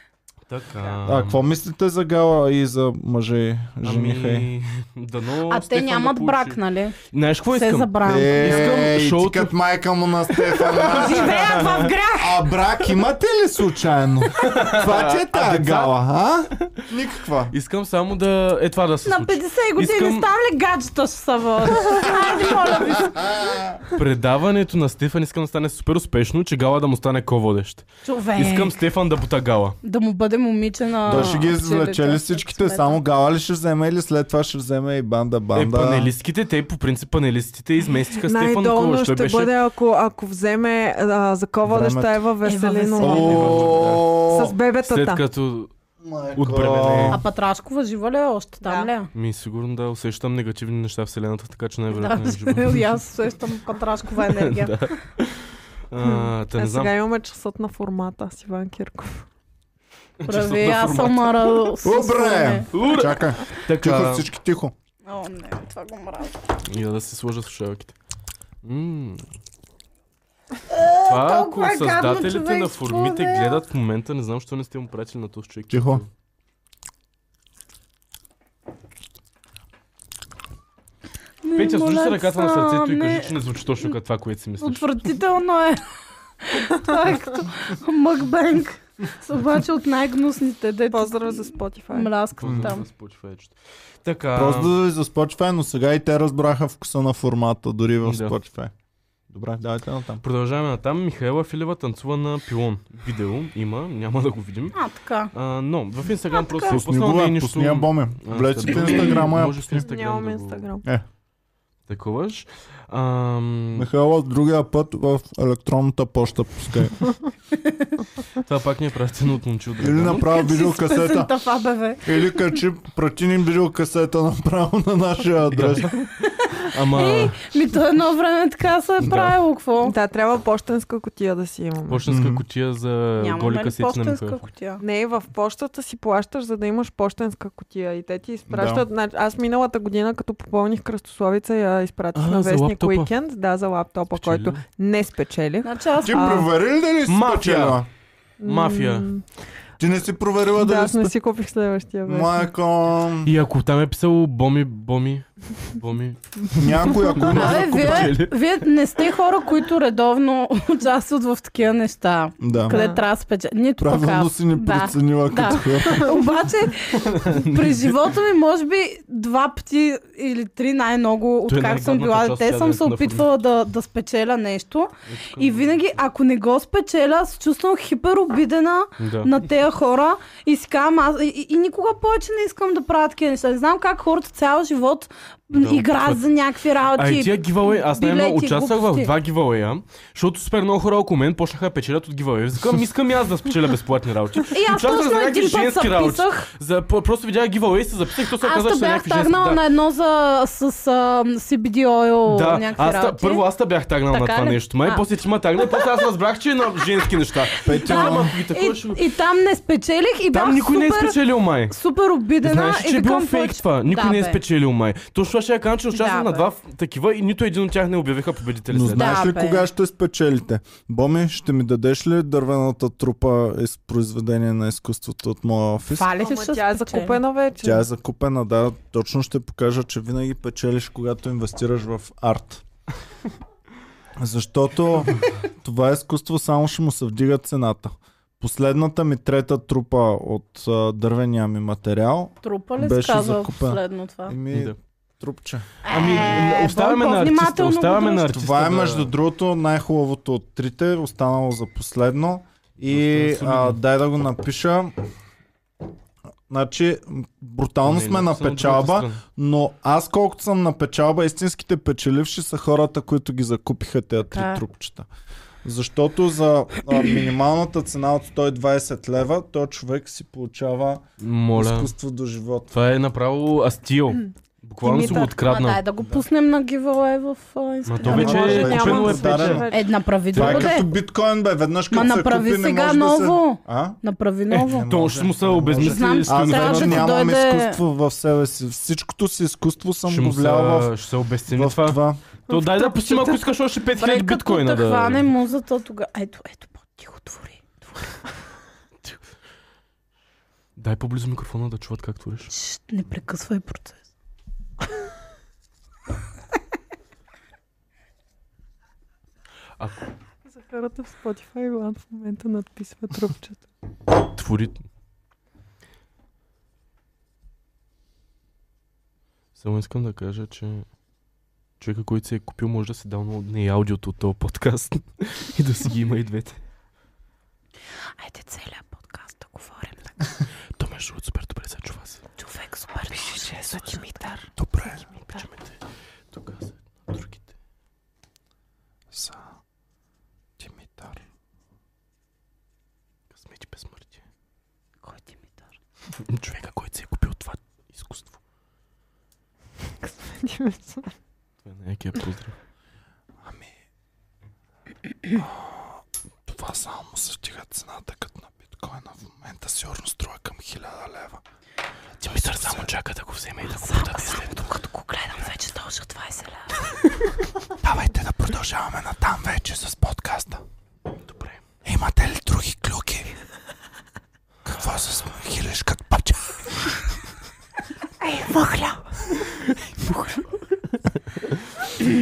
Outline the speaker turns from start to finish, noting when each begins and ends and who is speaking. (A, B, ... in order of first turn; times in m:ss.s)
0:00.5-0:01.4 A
0:01.0-0:04.5 B
0:03.8-0:09.5 A
0:05.5-0:07.0 C
0:07.5-0:08.8 C
0:08.0-0:11.6 B
0:10.5-0:11.9 A
0:10.7-0:12.5 C
0:12.2-0:17.5 B
0:14.3-0:15.9 A
0:17.5-0:20.3 A
0:19.0-0:23.3 C
0:23.0-0:23.8 B
0:23.9-0:29.8 A
0:28.0-0:28.8 C
0:29.8-0:33.0 C
0:31.0-0:36.1 B
0:35.5-0:39.6 A
0:38.2-0:45.2 D
0:41.6-0:42.2 B
0:42.4-0:43.6 C
0:43.0-0:44.6 B
0:43.3-0:44.1 A
0:44.8-0:45.7 A
0:46.0-0:47.2 B
0:46.4-0:47.2 A
0:47.1-0:49.1 C
0:48.6-0:48.9 D
0:49.1-0:52.9 A
0:51.9-0:54.8 C
0:54.3-0:57.0 A
0:56.0-0:59.3 D
1:00.2-1:01.7 A
1:00.3-1:02.7 C
1:01.8-1:04.7 B
1:02.7-1:04.3 A
1:05.0-1:06.4 C
1:06.7-1:07.9 A
1:08.6-1:09.2 A
1:10.7-1:13.6 C
1:11.1-1:16.1 A
1:15.7-1:16.0 B
1:21.4-1:23.4 C
1:21.6-1:24.8 A
1:24.6-1:25.8 C
1:26.4-1:32.8 C
1:30.9-1:32.1 D
1:32.4-1:34.8 A
1:34.3-1:38.7 B
1:38.0-1:38.4 A
1:39.3-1:40.2 B
1:40.2-1:44.8 A
1:44.7-1:45.3 C
1:45.3-1:50.7 A
1:46.3-1:46.8 C
1:46.7-1:49.9 B
1:49.8-1:50.8 D
1:51.9-1:53.9 A
1:53.8-1:57.0 B
1:57.6-1:58.0 C
1:58.4-2:00.3 A
1:59.8-2:01.3 B
2:00.3-2:02.4 C
2:02.0-2:06.0 B
2:05.5-2:05.9 A
2:06.3-2:10.0 C
2:06.7-2:07.4 A
2:09.0-2:09.4 A
2:09.8-2:12.0 D
2:11.9-2:14.4 A
2:12.1-2:12.4 B
2:13.2-2:14.8 C
2:14.8-2:26.5 D
2:18.5-2:18.9 B
2:22.2-2:23.1 A
2:24.1-2:24.6 A
2:25.6-2:26.5 C
2:26.0-2:27.9 B
2:27.1-2:27.8 A
2:28.4-2:29.2 D
2:28.4-2:29.1 A
2:29.8-2:31.1 B
2:30.6-2:32.5 D
2:32.0-2:33.3 B
2:33.2-2:38.5 A
2:36.5-2:38.2 B
2:37.2-3:09.1 C
2:42.4-2:42.8 B
2:42.7-2:43.0 D
2:43.8-2:46.2 B
2:47.0-2:48.0 A
2:51.5-2:53.3 A
2:55.1-2:55.8 A
2:59.0-2:59.3 A
3:05.5-3:06.2 A
3:07.0-3:19.6 A
3:14.5-3:16.5 C
3:18.4-3:23.4 C
3:22.3-3:29.0 A
3:24.1-3:25.0 C
3:25.6-3:26.1 C
3:27.6-3:31.2 C
3:27.6-3:28.4 B
3:30.3-3:31.8 A
3:31.7-3:34.4 C
3:32.4-3:39.3 A
3:35.9-3:36.5 C
3:38.7-3:46.1 B
3:39.0-3:39.7 C
3:45.9-3:47.2 C
3:46.2-3:47.9 D
3:47.6-3:52.6 B
3:54.2-4:05.7 B
4:02.4-4:04.4 C
4:05.8-4:08.3 C
4:05.9-4:09.1 A
4:08.3-4:15.0 B
4:12.9-4:13.8 A
4:16.5-4:25.1 B
4:17.8-4:19.2 A
4:24.3-4:24.6 C
4:25.6-4:31.0 B
4:31.2-4:31.9 A
4:31.6-4:32.7 B
4:32.7-4:35.8 A
4:34.8-4:35.4 D
4:34.9-4:38.9 C
4:37.9-4:39.7 A
4:38.0-4:39.9 D
4:38.0-4:39.7 B
4:39.7-4:40.9 C
4:40.3-4:40.8 A
4:40.3-4:44.0 B
4:41.9-4:44.9 C
4:44.5-4:47.2 A
4:44.7-4:50.9 B
4:45.8-4:47.8 C
4:50.1-4:55.3 A
4:51.5-4:52.2 B
4:52.5-4:53.4 D
4:54.0-4:58.1 C
5:00.8-5:02.5 A
5:02.5-5:04.0 C
5:09.8-5:10.1 A
5:10.5-5:13.6 D
5:14.2-5:14.8 A
5:19.6-5:20.9 A
5:21.8-5:26.6 A
5:28.2-5:30.2 C
5:30.8-5:32.2 A
5:32.4-5:34.0 C
5:33.1-5:34.5 D
5:34.6-5:35.0 B
5:35.2-5:35.8 A
5:36.3-5:37.4 A
5:39.1-5:39.4 B
5:40.6-5:41.2 B
5:43.3-5:44.2 A
5:45.0-5:45.6 C
5:46.2-5:48.3 A
5:50.0-5:51.1 D
5:51.6-5:52.6 A
5:53.4-5:53.7 B
5:55.3-6:01.4 B
6:02.2-6:02.9 B
6:02.2-6:04.7 A
6:03.7-6:06.7 C
6:07.8-6:10.6 B
6:11.2-6:11.6 A
6:11.8-6:13.3 B
6:14.6-6:17.0 B
6:18.2-6:19.0 D
6:20.0-6:20.4 A